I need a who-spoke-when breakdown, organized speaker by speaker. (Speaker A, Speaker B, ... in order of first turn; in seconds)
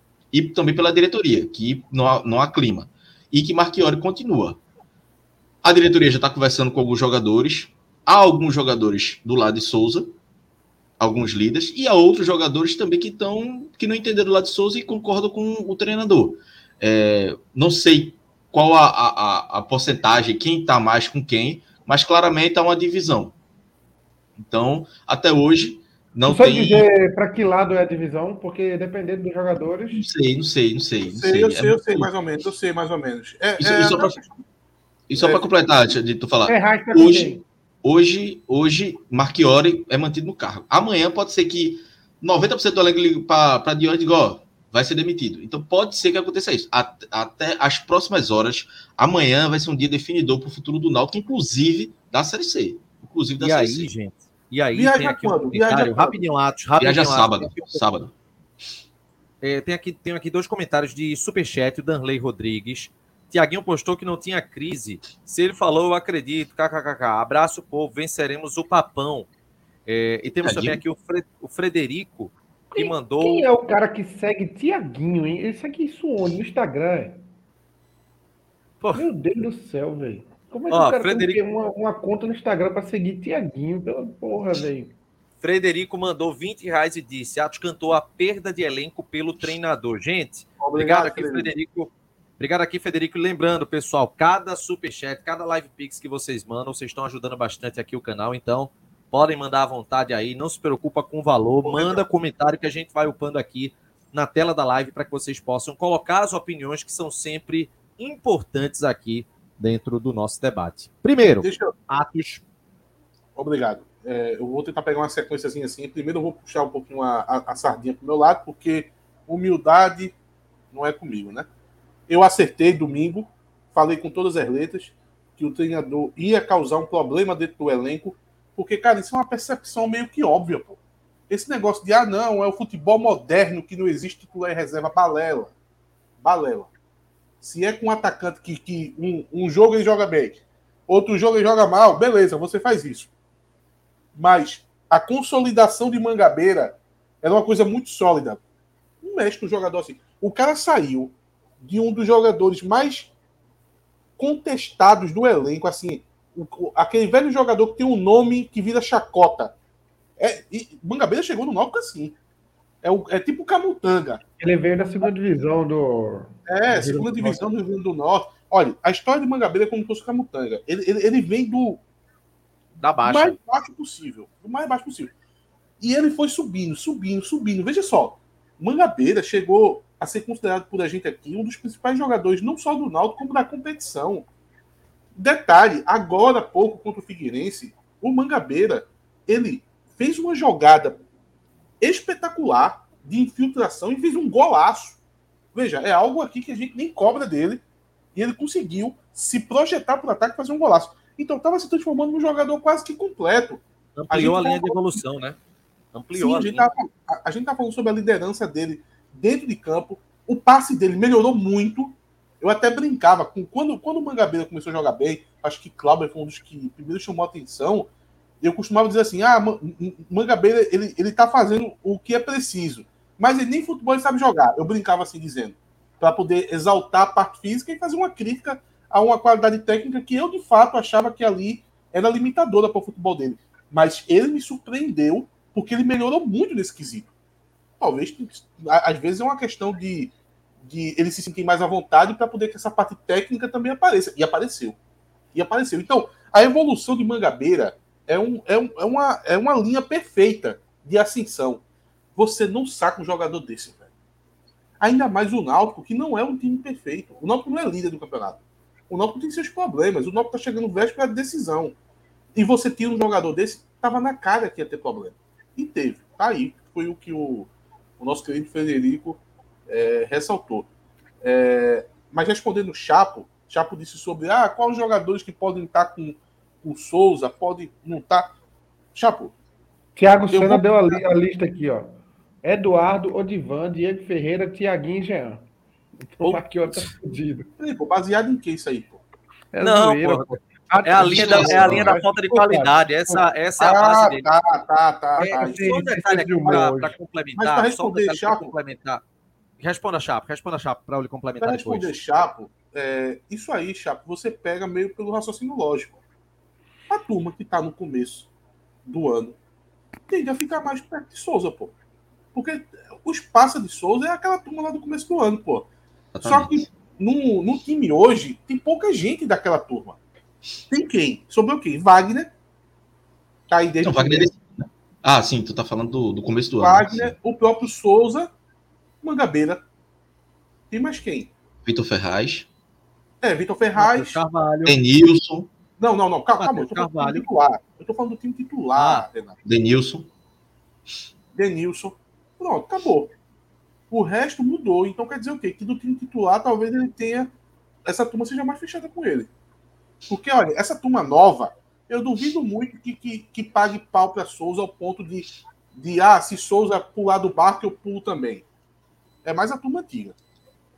Speaker A: 0.3-4.6, 5.6-10.1, 11.0-23.3, 24.4-26.9, 29.9-32.1, 33.6-34.2, 35.1-53.9, 56.8-58.1, 70.4-70.8, 291.6-291.9, 316.1-316.6, 323.8-327.1, 331.6-332.5, 334.7-335.5, 339.4-340.1
Speaker B: 26.3-30.1, 36.5-37.4, 72.7-77.2, 79.0-84.9, 164.4-167.4, 280.0-285.4, 286.1-287.5, 289.5-292.1, 295.2-296.9
Speaker C: 31.1-34.4, 35.2-35.4, 54.7-56.2, 90.6-91.5, 101.7-102.0, 111.4-111.7, 113.4-120.2, 120.7-121.5, 122.1-135.5, 136.2-136.7, 137.4-143.1, 144.2-148.4, 149.0-153.1, 154.2-159.5, 160.2-162.2, 162.8-164.2, 166.5-171.8, 173.0-175.1, 175.8-184.3, 185.2-191.0, 191.8-195.0, 195.5-197.6, 198.2-205.0, 206.1-217.9, 218.4-237.1, 237.8-244.8, 245.3-251.6, 252.2-253.9, 254.8-261.8, 262.4-270.7, 271.2-278.3, 278.9-279.3, 280.3-281.1, 286.2-286.9, 287.6-289.0, 291.0-295.9, 297.4-298.5, 301.4-306.0, 306.9-308.3, 308.9-309.4, 310.1-311.7, 312.3-315.7, 316.2-320.0, 320.7-322.3, 323.5-324.3, 326.6-328.3, 329.0-329.6, 330.7-331.3, 333.2-334.2, 335.8-339.3, 341.4-343.1, 343.9-347.3, 347.9-349.3, 350.1-358.4, 359.2-360.2
Speaker D: 53.4-57.9, 59.4-69.3, 69.9-73.5, 80.7-81.4, 85.4-112.4, 172.8-173.4, 204.0-205.4, 205.9-206.7, 289.6-294.3, 295.2-299.0, 299.6-301.9, 333.8-334.8, 336.4-337.3, 338.8-339.1